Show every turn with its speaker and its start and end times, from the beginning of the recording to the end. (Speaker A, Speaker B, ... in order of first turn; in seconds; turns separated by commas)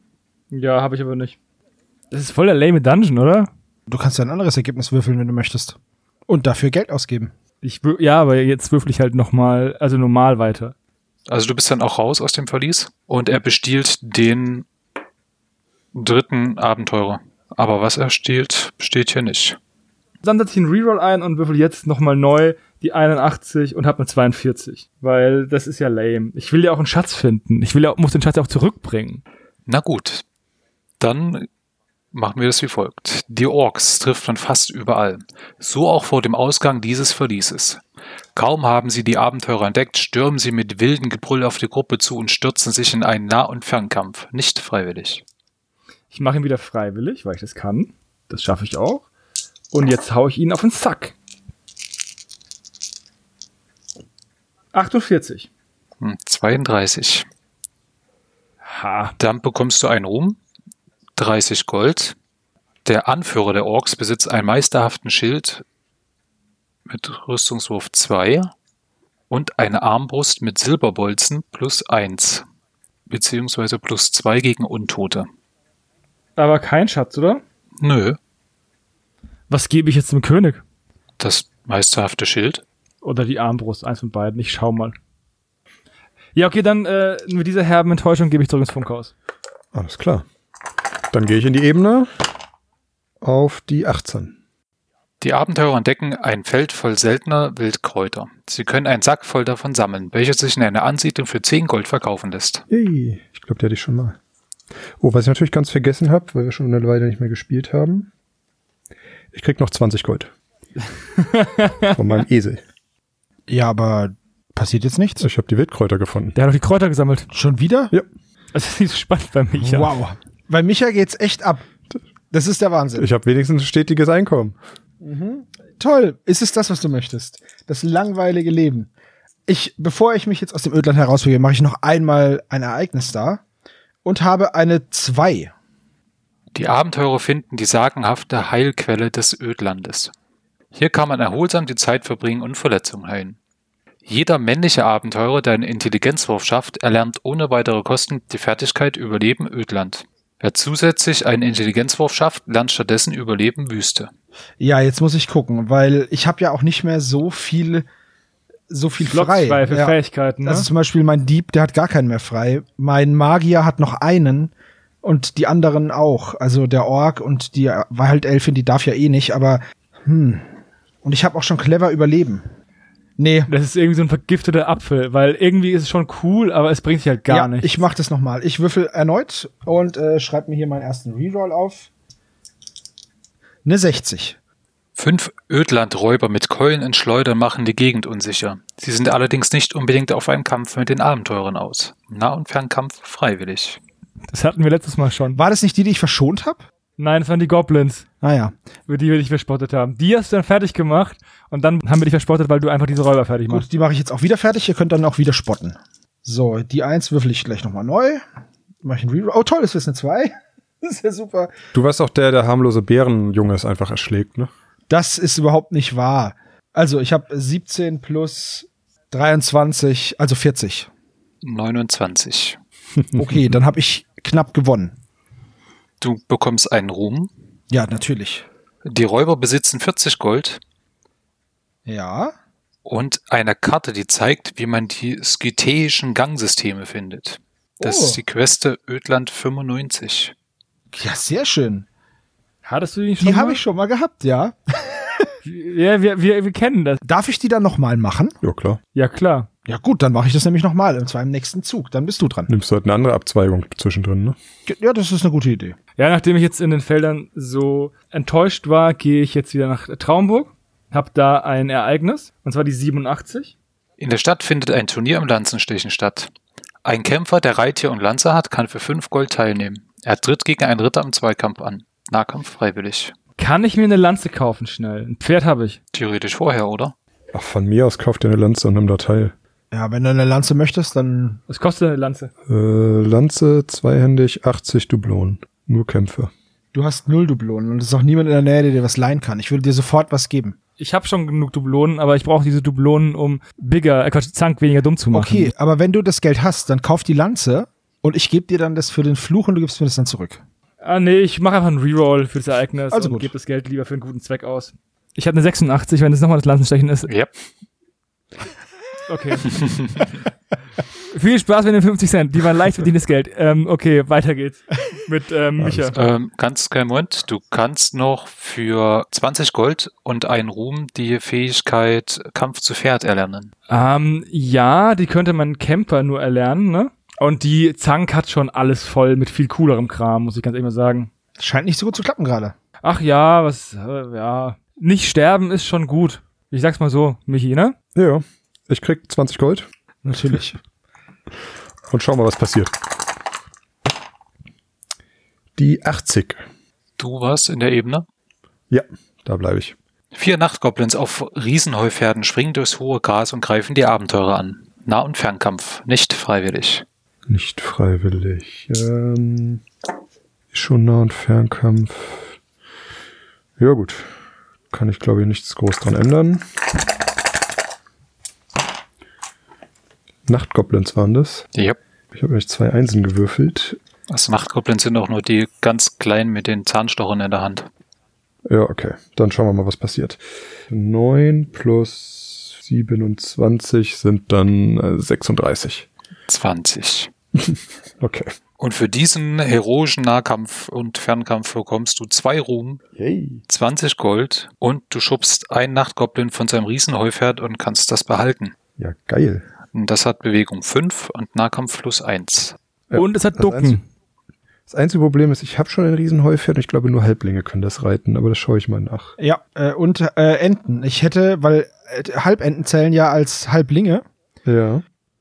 Speaker A: 0.5-1.4, Speaker A: 2.1-3.5, Speaker B: 3.9-7.3, Speaker A: 7.6-10.7, Speaker C: 11.3-14.7, Speaker C: 15.9-19.6, Speaker A: 20.2-29.2, Speaker C: 29.7-30.2, Speaker C: 31.0-31.5, Speaker C: 32.1-37.8, Speaker C: 38.3-45.2, Speaker A: 46.1-49.0, Speaker A: 49.7-51.1, Speaker A: 54.7-55.5, Speaker C: 56.0-57.3, Speaker A: 58.6-59.1, Speaker C: 59.2-60.4, Speaker C: 61.1-62.1, Speaker C: 62.8-65.6, Speaker C: 66.8-68.5, Speaker C: 69.3-72.5, Speaker C: 73.1-75.3, Speaker A: 76.4-77.4, Speaker C: 77.8-78.2, Speaker A: 79.5-80.6, Speaker C: 81.2-82.6, Speaker A: 83.0-85.0, Speaker A: 86.3-89.1, Speaker D: 89.7-90.2, Speaker D: 91.1-92.1, Speaker D: 93.2-94.3, Speaker C: 95.2-102.6, Speaker D: 102.7-104.2, Speaker D: 105.0-108.1, Speaker D: 109.3-110.3, Speaker A: 111.2-112.0, Speaker D: 111.9-112.6, Speaker B: 113.5-115.2, Speaker D: 115.2-116.3, Speaker A: 116.3-117.3, Speaker B: 117.3-117.9, Speaker A: 118.5-120.0, Speaker B: 119.6-121.6, Speaker B: 122.3-123.1, Speaker D: 122.9-124.5, Speaker B: 125.0-128.9, Speaker B: 129.5-133.4, Speaker B: 134.0-135.5, Speaker C: 136.5-140.1, Speaker C: 140.7-143.4, Speaker C: 144.1-154.1, Speaker B: 154.6-157.8, Speaker B: 158.7-164.5, Speaker A: 159.0-160.7, Speaker B: 165.0-170.5, Speaker B: 171.0-172.5, Speaker B: 173.2-173.5, Speaker A: 173.5-177.8, Speaker B: 177.3-181.9, Speaker B: 183.6-184.4, Speaker C: 184.9-193.8, Speaker A: 194.3-195.4, Speaker B: 195.3-196.7, Speaker A: 197.0-198.0, Speaker B: 198.2-198.5, Speaker A: 198.9-203.6, Speaker B: 203.5-208.2, Speaker B: 208.8-211.5, Speaker D: 211.7-214.5, Speaker B: 214.9-220.9, Speaker C: 221.4-222.6, Speaker B: 223.1-224.9, Speaker C: 226.0-227.3, Speaker B: 227.7-228.4, Speaker C: 228.8-230.6, Speaker B: 231.8-232.3, Speaker C: 232.8-240.3, Speaker B: 237.8-238.2, Speaker B: 240.9-241.8, Speaker A: 242.6-243.6, Speaker B: 243.2-245.3, Speaker A: 245.4-247.0, Speaker B: 247.0-248.4, Speaker D: 248.4-248.8, Speaker A: 248.9-249.5, Speaker B: 249.7-252.5, Speaker D: 252.5-254.4, Speaker B: 254.7-255.8, Speaker A: 256.0-263.5, Speaker C: 264.0-266.3, Speaker C: 266.8-273.1, Speaker A: 273.4-275.8, Speaker C: 275.9-276.9, Speaker D: 277.3-279.3, Speaker B: 279.7-281.4, Speaker A: 281.5-282.3, Speaker D: 282.5-286.3, Speaker B: 286.7-290.6, Speaker A: 290.8-295.5, Speaker B: 295.1-300.4, Speaker A: 300.8-307.1, Speaker B: 302.9-303.3, Speaker A: 309.1-309.6, Speaker C: 309.5-310.0, Speaker A: 311.1-315.9, Speaker D: 315.6-316.0, Speaker C: 315.9-323.5, Speaker A: 323.7-331.1, Speaker B: 331.4-332.5, Speaker A: 332.8-337.7, Speaker D: 337.9-339.7, Speaker B: 340.0-340.6, Speaker D: 341.9-342.7, Speaker D: 345.6-346.4, Speaker C: 347.0-348.1, Speaker D: 348.7-349.8, Speaker C: 350.1-356.8, Speaker D: 357.3-359.6, Speaker D: 360.5-362.3, Speaker D: 363.6-364.1, Speaker D: 364.7-366.4, Speaker D: 370.3-371.5, Speaker D: 372.1-373.8, Speaker C: 374.1-377.7, Speaker D: 378.4-385.9, Speaker C: 386.3-387.1, Speaker D: 387.4-388.3, Speaker C: 388.6-392.8, Speaker D: 392.9-393.4, Speaker C: 393.5-398.5, Speaker D: 398.8-399.4, Speaker C: 399.7-402.6, Speaker D: 402.9-403.8, Speaker A: 402.9-403.8, Speaker D: 404.7-409.1, Speaker B: 409.2-414.0, Speaker D: 414.4-414.8